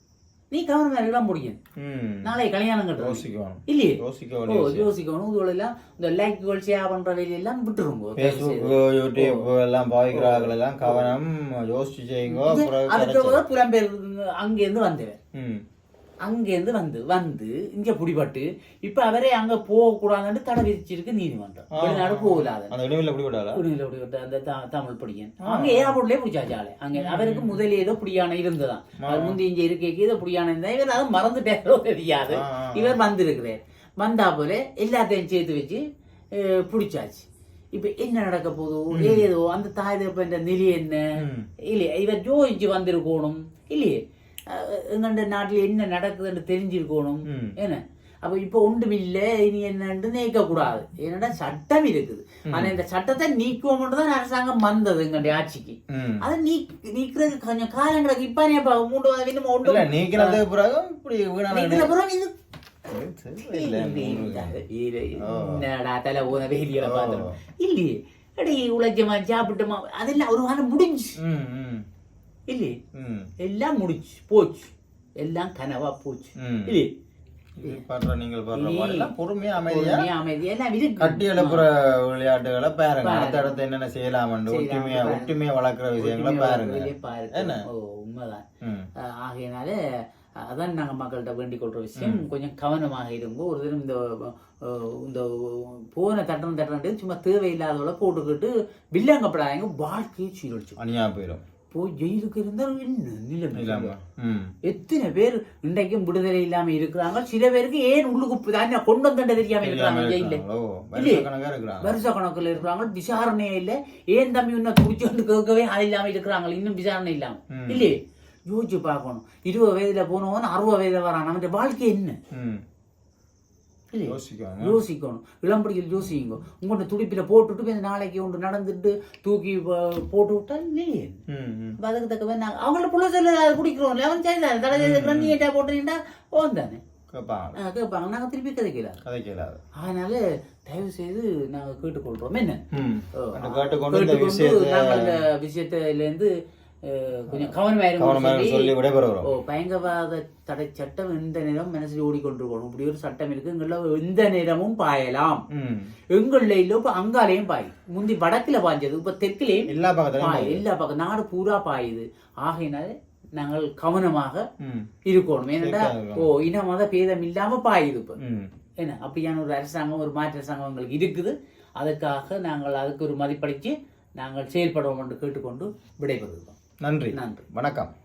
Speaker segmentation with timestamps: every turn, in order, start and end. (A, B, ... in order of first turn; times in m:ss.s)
0:00.5-0:01.6 A
0:01.8-0:02.3 B
0:02.2-0:09.5 A
0:03.0-0:04.9 B
0:08.2-0:13.4 B
0:10.1-0:11.1 A
0:12.3-0:15.2 A
0:15.3-0:15.6 B
0:16.2-0:22.7 A
0:21.7-0:23.6 B
0:23.6-0:41.1 A
0:25.4-0:26.0 B
0:27.0-0:27.6 B
0:29.0-0:29.4 B
0:32.3-0:33.0 B
0:38.9-0:39.3 B
0:41.2-0:41.5 B
0:41.7-1:00.4 A
0:47.3-0:47.5 B
0:52.5-0:52.8 B
0:55.9-0:56.2 B
0:59.6-1:01.9 B
1:01.5-1:02.3 A
1:02.9-1:04.6 B
1:03.5-1:11.2 A
1:05.2-1:05.7 B
1:06.8-1:07.4 B
1:11.2-1:11.8 B
1:12.5-1:12.8 A
1:12.9-1:13.3 B
1:13.4-1:16.9 A
1:16.4-1:16.8 B
1:17.6-1:20.1 B
1:18.5-1:21.6 A
1:21.0-1:27.7 B
1:23.0-1:23.6 A
1:24.5-1:25.4 A
1:26.0-1:28.5 A
1:28.6-1:28.9 B
1:29.0-1:29.8 A
1:30.4-1:40.8 A
1:32.0-1:32.2 B
1:40.8-1:41.4 B
1:41.7-1:43.9 A
1:43.6-1:44.5 B
1:44.6-1:50.4 A
1:49.6-1:52.0 B
1:51.0-1:51.2 A
1:51.8-2:02.2 A
1:57.5-1:57.9 B
2:02.3-2:02.6 B
2:03.9-2:11.2 A
2:04.1-2:04.8 B
2:11.3-2:11.8 B
2:11.8-2:16.8 A
2:14.7-2:15.4 B
2:17.1-2:17.6 B
2:17.6-2:19.0 A
2:19.0-2:19.6 B
2:19.8-2:22.6 A
2:22.7-2:25.2 B
2:23.2-2:35.4 A
2:27.3-2:29.3 B
2:35.5-2:35.9 B
2:36.1-2:44.5 A
2:39.7-2:40.6 B
2:44.6-2:44.9 B
2:45.0-2:48.2 A
2:45.6-2:46.4 B
2:48.2-2:48.5 B
2:48.8-2:56.6 A
2:56.8-2:57.9 B
2:57.1-2:57.5 A